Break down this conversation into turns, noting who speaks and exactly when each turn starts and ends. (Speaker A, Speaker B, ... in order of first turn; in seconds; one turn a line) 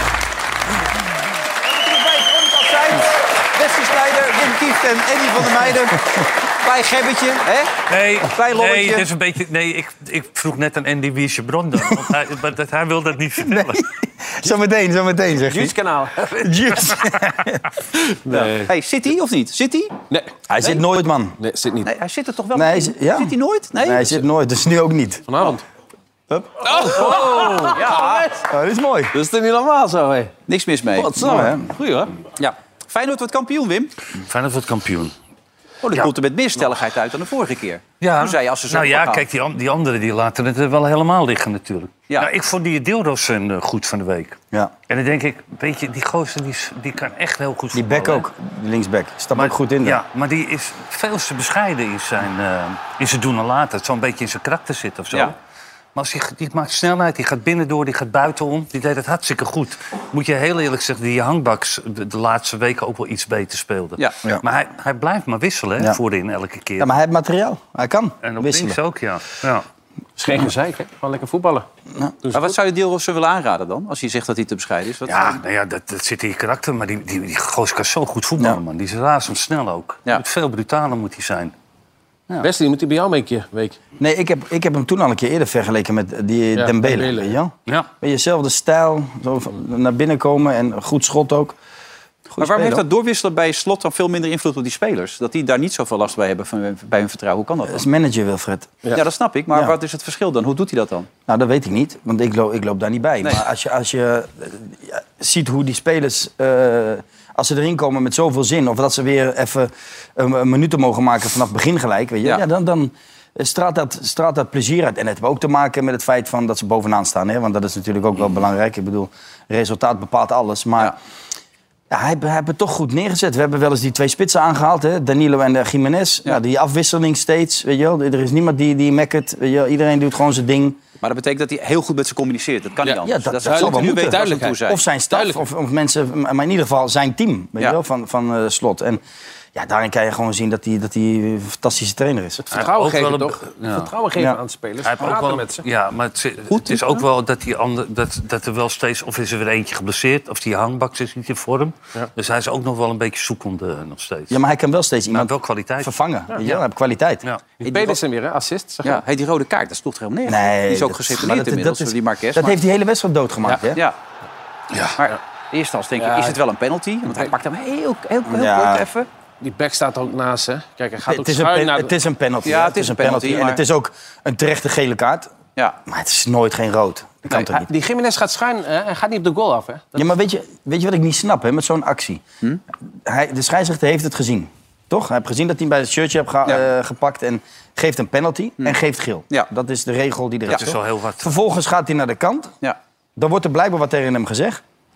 Speaker A: 1.6-9.1
Speaker B: 7.9-13.8
Speaker C: 13.4-15.7
Speaker D: 15.4-16.5
Speaker C: 16.4-17.6
Speaker D: 18.2-18.7
Speaker A: 18.3-19.9
Speaker D: 20.1-20.8
Speaker C: 20.5-21.4
Speaker D: 21.4-21.9
Speaker A: 21.8-24.2
Speaker C: 22.5-25.2
Speaker D: 25.3-25.6
Speaker C: 26.3-27.2
Speaker D: 26.6-28.4
Speaker A: 26.9-28.3
Speaker C: 28.4-29.1
Speaker D: 29.1-30.3
Speaker A: 30.5-31.2
Speaker D: 30.9-32.1
Speaker C: 31.1-31.7
Speaker A: 32.4-33.9
Speaker B: 34.2-35.1
Speaker A: 35.9-39.2
Speaker B: 38.0-48.2
Speaker C: 47.7-50.0
Speaker B: 49.3-55.4
Speaker B: 55.9-66.9
Speaker C: 66.8-68.8
Speaker B: 68.2-69.6
Speaker D: 70.2-71.7
Speaker D: 72.2-72.5
Speaker A: 72.3-75.4
Speaker B: 75.0-81.5
Speaker D: 82.4-83.8
Speaker C: 84.0-91.5
Speaker D: 86.5-87.3
Speaker C: 92.3-92.8
Speaker A: 92.4-97.8
Speaker C: 97.7-98.8
Speaker A: 98.9-101.1
Speaker C: 101.3-121.0
Speaker C: 121.9-130.8
Speaker A: 131.0-134.8
Speaker D: 132.8-134.6
Speaker C: 133.0-139.0
Speaker D: 135.1-135.5
Speaker C: 139.5-142.4
Speaker D: 142.4-145.6
Speaker B: 142.5-143.9
Speaker B: 144.8-154.4
Speaker A: 146.5-147.1
Speaker C: 154.3-157.2
Speaker B: 155.1-155.9
Speaker D: 157.6-159.0
Speaker A: 157.7-158.0
Speaker A: 158.8-162.6
Speaker C: 160.2-163.8
Speaker B: 164.7-165.0
Speaker A: 165.0-169.1
Speaker D: 165.9-166.4
Speaker C: 168.2-168.8
Speaker D: 169.4-171.9
Speaker C: 171.1-175.3
Speaker A: 172.4-173.6
Speaker C: 175.9-177.7
Speaker D: 177.5-180.1
Speaker C: 179.9-182.2
Speaker C: 183.0-192.5
Speaker B: 190.5-191.4
Speaker C: 193.2-194.6